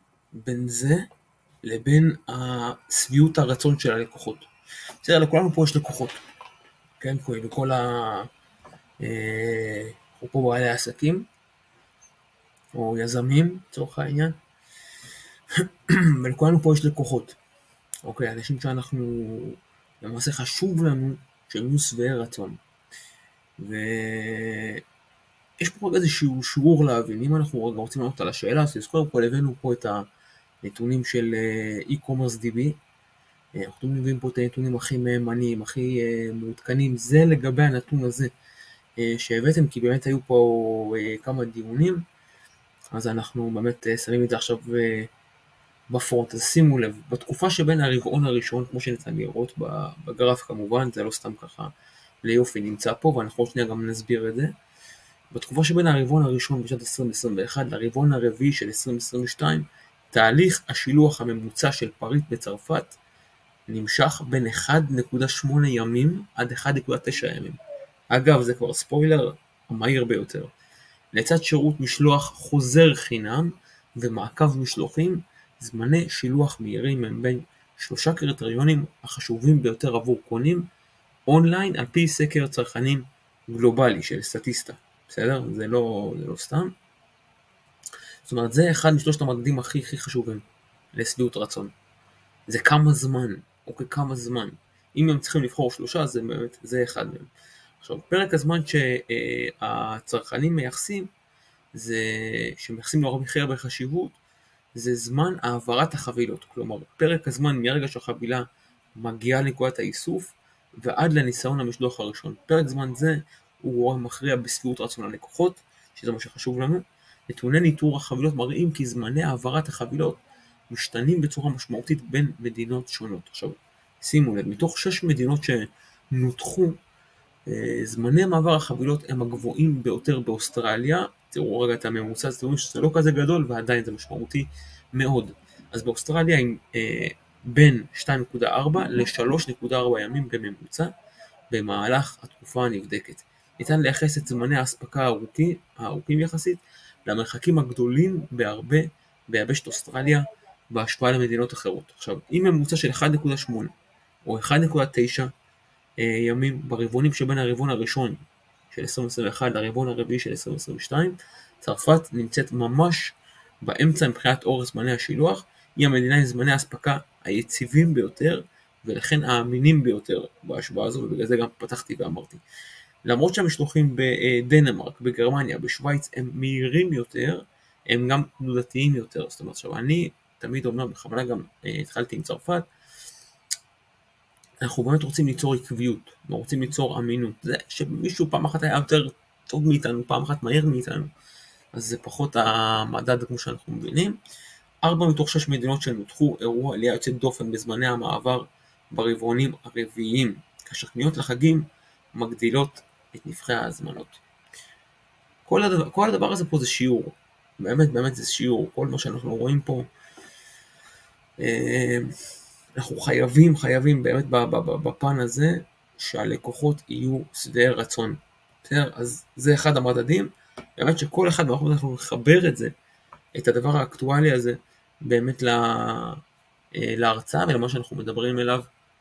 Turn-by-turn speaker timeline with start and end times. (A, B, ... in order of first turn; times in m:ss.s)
0:00.3-0:01.0 A
0:01.6-0:04.5 A
0:05.0-0:06.2 A
0:07.0-0:08.3 A
0:09.0-0:11.2 A
0:12.7-0:14.4 A
0:15.6-0:17.4 A
0:18.0-0:22.6 A
0:23.6-0:24.8 A
0:25.6-0:30.0 A
0:30.6-0:32.8 A
0:33.5-0:38.3 A
0:39.0-0:42.0 A
0:42.9-0:45.1 A
0:45.9-0:51.7 A
0:52.2-0:54.5 A
0:55.3-1:03.0 A
1:03.7-1:07.6 A
1:08.1-1:10.5 A
1:11.1-1:20.7 A
1:21.3-1:26.7 A
1:28.2-1:31.7 A
1:32.5-1:37.3 A
1:37.8-1:41.1 A
1:41.7-1:44.2 A
1:44.7-1:48.4 A
1:49.0-2:06.8 A
2:07.5-2:20.9 A
2:21.5-2:33.7 A
2:34.2-2:35.3 A
2:36.0-2:52.4 A
2:53.0-3:02.7 A
3:04.6-3:11.1 A
3:11.7-3:14.2 A
3:14.8-3:24.2 A
3:25.4-3:29.9 A
3:31.4-3:32.1 A
3:32.8-3:42.7 A
3:43.4-3:46.2 A
3:46.7-3:48.7 A